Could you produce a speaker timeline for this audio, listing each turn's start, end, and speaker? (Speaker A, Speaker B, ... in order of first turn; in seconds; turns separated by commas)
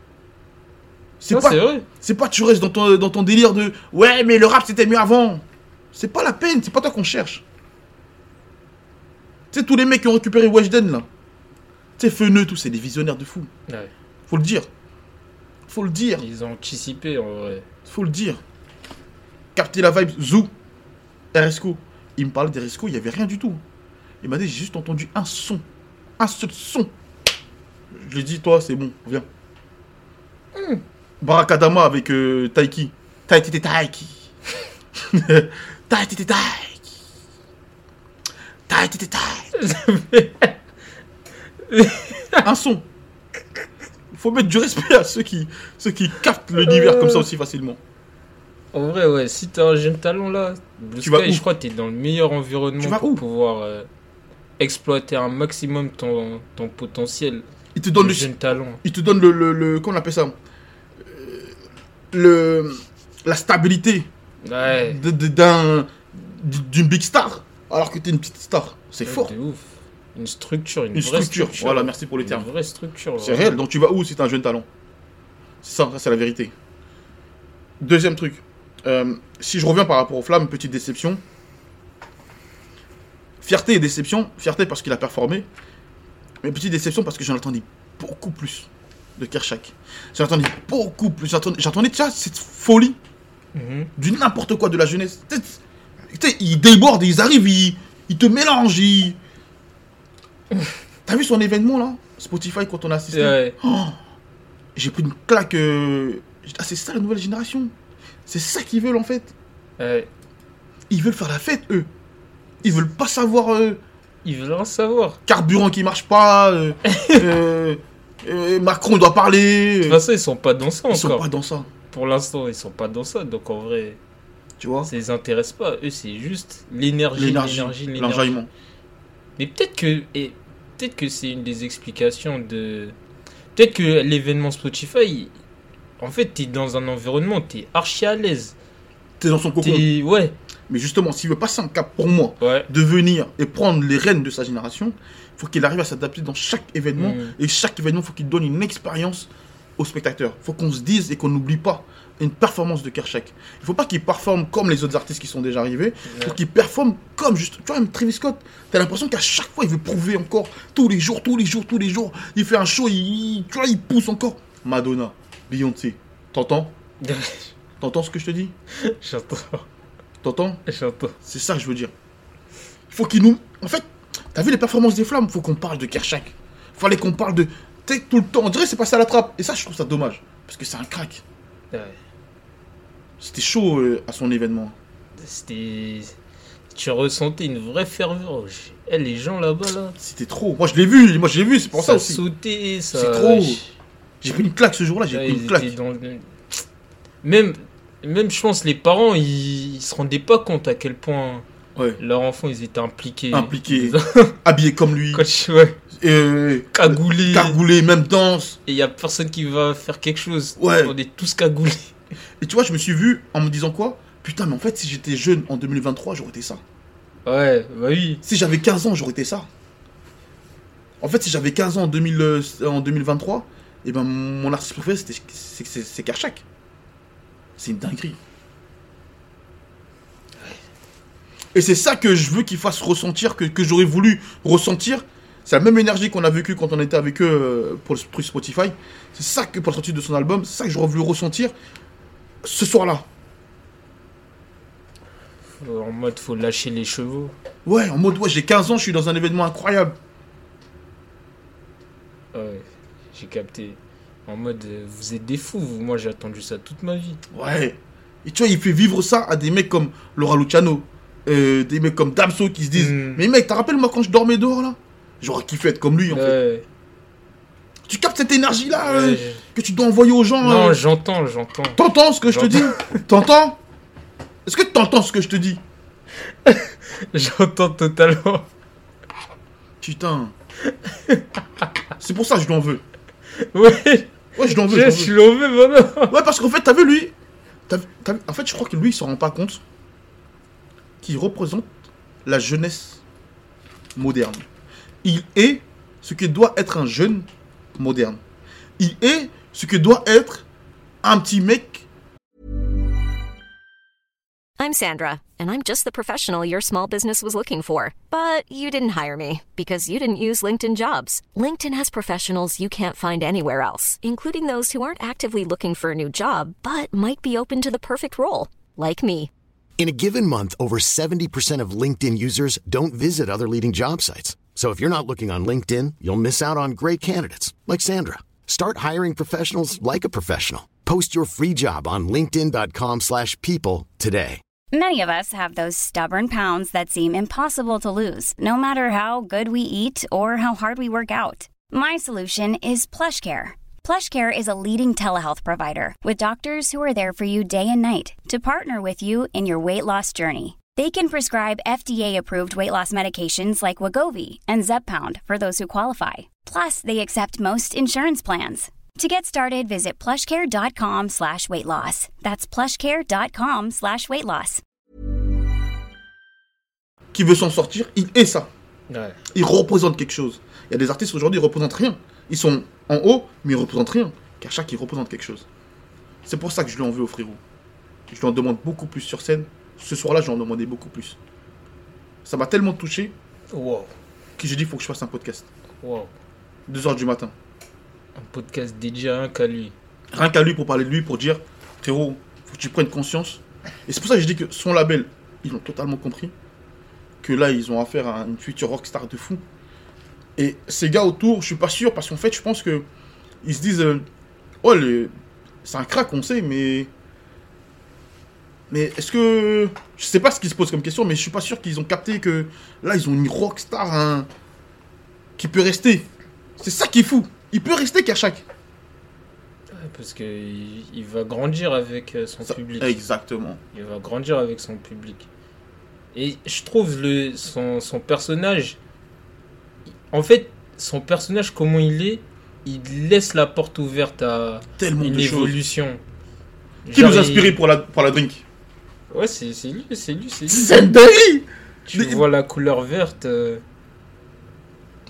Speaker A: 1.2-5.4, Speaker B: 1.3-1.9, Speaker A: 5.9-7.4, Speaker A: 9.5-11.1, Speaker A: 12.0-13.5, Speaker A: 14.3-14.7, Speaker A: 15.7-16.2, Speaker B: 16.2-17.6, Speaker A: 17.9-18.4, Speaker A: 19.6-20.5, Speaker A: 21.3-23.6, Speaker A: 24.2-25.6, Speaker A: 26.2-26.9, Speaker A: 27.9-29.2, Speaker B: 30.6-30.8, Speaker A: 31.2-34.1, Speaker A: 35.1-36.8, Speaker A: 38.7-39.5, Speaker B: 39.5-40.6, Speaker B: 41.7-42.5, Speaker A: 42.4-42.9, Speaker A: 44.1-47.8, Speaker B: 46.6-47.3, Speaker B: 48.7-53.9, Speaker A: 51.0-51.4, Speaker A: 52.8-53.2, Speaker B: 54.6-57.5, Speaker A: 57.8-58.3, Speaker B: 58.0-58.8, Speaker A: 58.8-60.4, Speaker A: 61.0-61.5, Speaker A: 62.1-64.1, Speaker B: 64.4-65.0, Speaker A: 64.7-69.3, Speaker B: 69.0-73.6, Speaker A: 71.0-72.5, Speaker A: 73.2-74.7, Speaker A: 75.6-76.5, Speaker A: 77.8-81.2, Speaker A: 83.4-85.5, Speaker A: 86.4-93.0, Speaker B: 93.5-93.9, Speaker A: 94.0-95.6, Speaker A: 96.1-99.2, Speaker A: 101.1-104.0, Speaker B: 103.1-103.6, Speaker A: 104.8-107.7, Speaker A: 108.3-109.3, Speaker B: 109.8-110.1, Speaker A: 110.9-111.9, Speaker A: 112.6-113.8, Speaker B: 114.2-115.2, Speaker A: 115.3-120.0, Speaker B: 116.9-117.2, Speaker B: 119.8-121.2, Speaker A: 120.9-121.7, Speaker B: 121.9-124.0, Speaker A: 124.6-124.9, Speaker B: 124.9-128.3, Speaker A: 127.2-128.5, Speaker B: 129.4-132.9, Speaker B: 133.6-135.3, Speaker B: 136.0-138.6, Speaker A: 139.2-139.9, Speaker B: 139.6-140.4, Speaker A: 140.7-166.7, Speaker B: 142.4-142.7, Speaker B: 147.0-147.3, Speaker B: 156.1-156.4, Speaker B: 167.0-167.5, Speaker A: 167.8-168.5, Speaker B: 168.8-169.7, Speaker A: 170.2-170.6, Speaker B: 170.7-171.2, Speaker A: 171.2-171.9, Speaker A: 172.9-181.2, Speaker B: 181.7-182.0, Speaker A: 183.2-184.8, Speaker B: 185.2-186.2, Speaker B: 186.7-189.9, Speaker A: 190.0-192.2, Speaker B: 191.8-193.7, Speaker A: 192.9-193.6, Speaker A: 194.2-195.7, Speaker B: 195.1-196.6, Speaker B: 197.2-201.4, Speaker B: 202.0-204.3, Speaker A: 203.3-205.2, Speaker B: 205.1-205.8, Speaker A: 206.0-208.6, Speaker B: 206.7-207.6, Speaker B: 208.7-211.9, Speaker A: 210.6-210.9, Speaker A: 212.4-216.6, Speaker B: 217.3-218.2, Speaker A: 218.2-219.5, Speaker A: 221.0-226.4, Speaker A: 227.6-228.2, Speaker A: 231.5-241.5, Speaker A: 242.4-243.1, Speaker B: 245.6-247.3, Speaker A: 247.7-250.0, Speaker B: 252.3-257.2, Speaker A: 257.3-266.4, Speaker B: 262.8-263.2, Speaker B: 266.1-266.6, Speaker A: 267.9-270.8, Speaker B: 268.8-269.4, Speaker B: 270.4-273.0, Speaker A: 271.8-273.6, Speaker A: 274.5-275.6, Speaker B: 276.4-278.5, Speaker A: 279.8-280.3, Speaker B: 280.9-281.2, Speaker A: 282.0-282.8, Speaker B: 283.4-286.1, Speaker A: 284.4-285.1, Speaker A: 286.1-287.1, Speaker A: 287.7-289.6, Speaker A: 291.0-291.7, Speaker A: 292.3-293.0, Speaker A: 294.0-294.4, Speaker A: 295.0-297.3, Speaker A: 297.8-298.2, Speaker A: 298.8-300.4, Speaker A: 301.0-301.9, Speaker C: 304.6-319.3, Speaker D: 319.8-334.4, Speaker E: 334.7-364.6, Speaker A: 367.1-368.5, Speaker B: 368.9-369.2, Speaker A: 369.3-375.4, Speaker A: 376.2-377.4, Speaker A: 378.1-381.2, Speaker A: 382.2-383.1, Speaker B: 383.5-383.9, Speaker A: 384.4-385.5, Speaker B: 385.8-386.1, Speaker A: 386.7-387.3, Speaker B: 388.2-389.7, Speaker A: 390.1-396.3, Speaker A: 397.2-399.4, Speaker A: 400.4-402.9, Speaker A: 403.4-404.0, Speaker A: 404.6-405.1, Speaker A: 405.6-406.9, Speaker A: 408.7-414.3, Speaker A: 415.4-416.1, Speaker A: 416.6-418.4, Speaker B: 419.7-423.0, Speaker A: 422.5-423.6, Speaker B: 423.7-425.3, Speaker B: 426.1-428.8, Speaker B: 430.1-436.0, Speaker A: 434.8-435.6, Speaker B: 436.9-437.6, Speaker A: 436.9-438.4, Speaker B: 439.1-440.6, Speaker A: 440.5-442.2, Speaker B: 441.9-443.6